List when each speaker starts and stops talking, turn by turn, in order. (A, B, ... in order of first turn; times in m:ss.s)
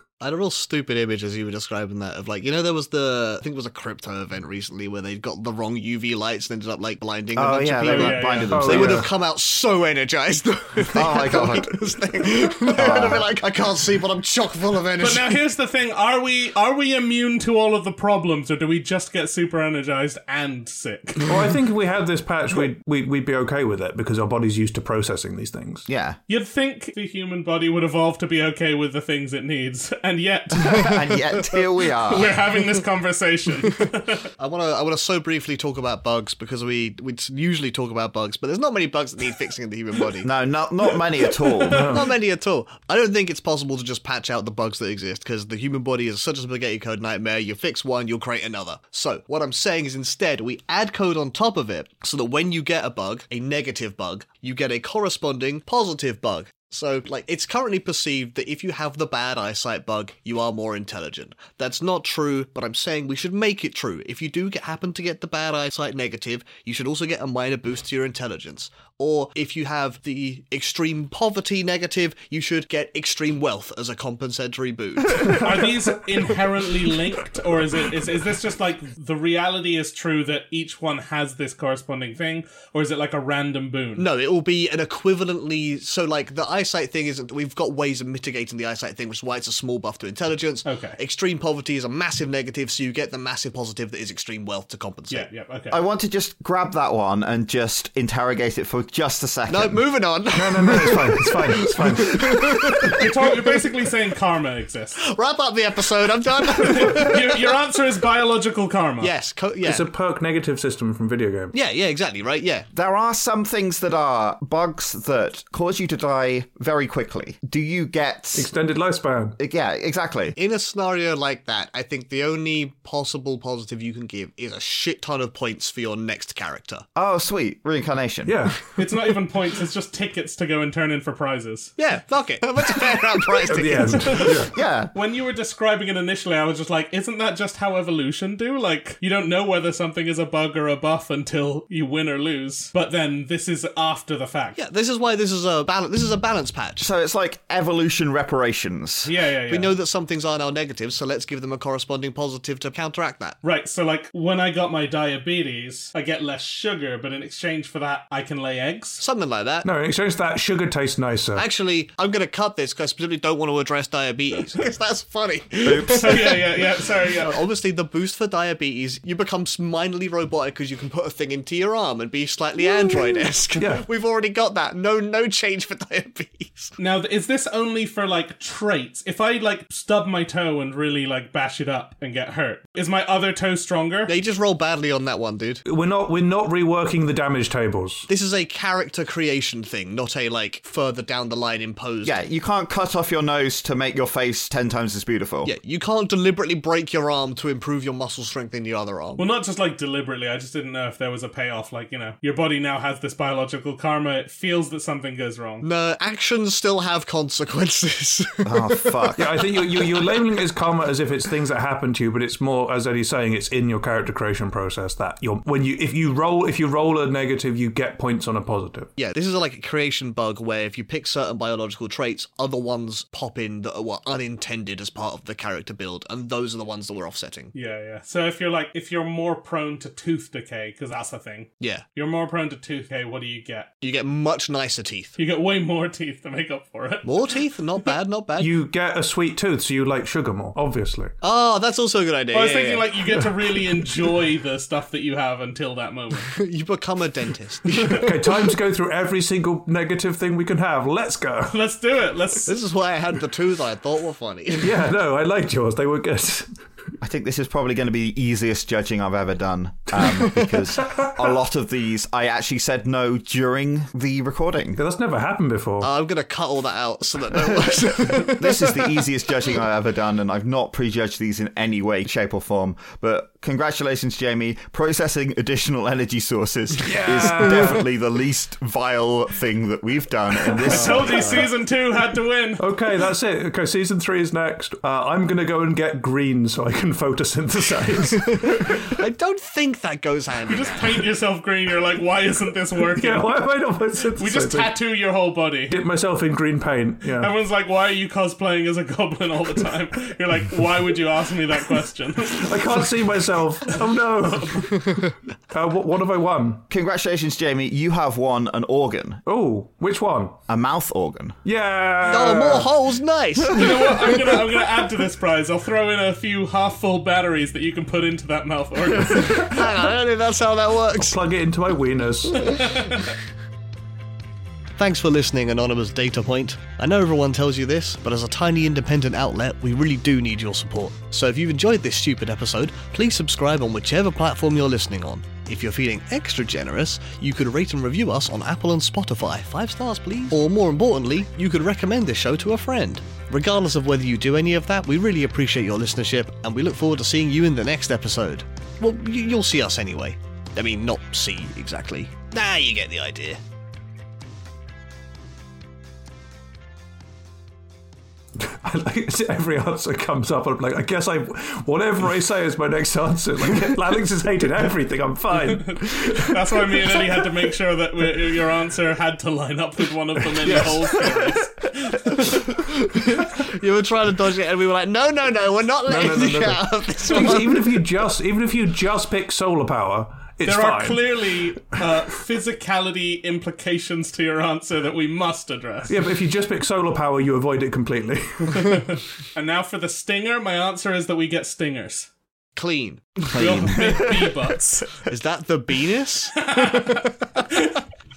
0:00.2-0:15.3 A
0:07.4-0:09.1 B
0:07.9-0:08.7 C
0:08.5-0:09.1 D
0:10.9-0:13.4 B
0:15.0-0:21.3 C
0:21.3-0:25.9 D
0:25.9-0:26.2 B
0:26.3-0:31.0 C
0:30.6-0:32.3 B
0:32.0-0:34.3 C
0:34.4-0:40.3 A
0:40.2-0:41.9 B
0:41.5-0:41.9 C
0:41.7-0:42.1 D
0:41.8-1:15.6 A
1:15.3-1:24.1 C
1:24.0-1:35.3 A
1:30.6-1:31.0 C
1:35.1-1:35.8 C
1:35.7-1:39.8 B
1:39.5-1:43.6 A
1:40.3-1:43.0 D
1:42.9-1:45.0 C
1:45.0-1:47.5 A
1:46.6-1:49.1 C
1:49.0-1:49.9 A
1:49.6-1:51.5 D
1:51.5-1:52.7 A
1:52.7-1:58.5 B
1:58.4-1:59.4 D
1:59.4-2:00.4 B
2:00.4-2:06.8 A
2:07.0-2:08.4 B
2:08.2-2:08.6 D
2:08.8-2:11.7 C
2:11.8-2:14.4 A
2:13.5-2:14.5 D
2:14.0-2:24.6 C
2:14.5-2:14.9 B
2:24.6-2:26.9 A
2:26.8-2:29.1 B
2:29.0-2:29.7 C
2:29.5-2:33.4 A
2:33.4-2:39.0 C
2:39.0-2:39.7 A
2:39.6-2:41.4 D
2:41.4-2:56.8 A
2:45.6-2:46.4 B
2:45.9-2:47.4 C
2:53.6-2:53.8 D
2:56.8-3:04.1 C
3:04.1-3:05.6 A
3:05.7-3:08.1 D
3:08.1-3:12.2 A
3:12.0-3:15.5 B
3:15.4-3:19.2 A
3:19.2-3:25.6 C
3:25.6-3:29.1 A
3:28.4-3:29.3 B
3:29.2-3:38.9 D
3:29.8-3:30.1 A
3:39.0-3:47.5 A
3:47.5-3:53.7 C
3:51.6-3:51.8 A
3:53.8-3:55.1 A
3:55.2-3:57.3 C
3:57.0-3:58.6 A
3:58.4-4:01.1 D
4:01.2-4:02.9 A
4:02.3-4:06.3 C
4:06.3-4:08.2 A
4:07.8-4:11.6 D
4:11.5-4:12.6 C
4:12.5-4:14.8 A
4:14.6-4:16.5 D
4:17.0-4:24.8 B
4:20.0-4:21.1 D
4:24.7-4:25.9 D
4:25.8-4:29.0 A
4:28.2-4:41.5 B
4:36.8-4:37.9 D
4:40.6-4:41.5 A
4:40.6-4:42.6 C
4:40.6-4:40.9 D
4:42.6-4:48.8 D
4:48.3-4:51.0 A
4:50.5-4:53.3 C
4:53.0-4:54.7 D
4:54.2-4:55.8 C
4:55.7-4:57.3 D
4:57.2-5:02.7 C
5:02.2-5:06.6 D
5:06.7-5:09.2 B
5:09.3-5:10.4 D
5:10.5-5:11.4 B
5:11.4-5:12.7 D
5:12.0-5:13.9 A
5:13.5-5:19.6 C
5:19.0-5:21.2 A
5:20.9-5:22.6 D
5:22.3-5:23.1 C
5:24.8-5:53.4 A
5:58.4-6:07.0 D
6:05.4-6:12.4 C
6:10.4-6:11.0 A
6:12.2-6:17.8 A
6:15.9-6:21.8 D
6:20.4-6:25.9 C
6:25.9-6:28.8 D
6:28.5-6:32.1 C
6:32.6-6:33.7 A
6:33.3-6:34.4 B
6:33.4-6:34.9 C
6:35.0-6:37.1 A
6:36.4-6:37.8 C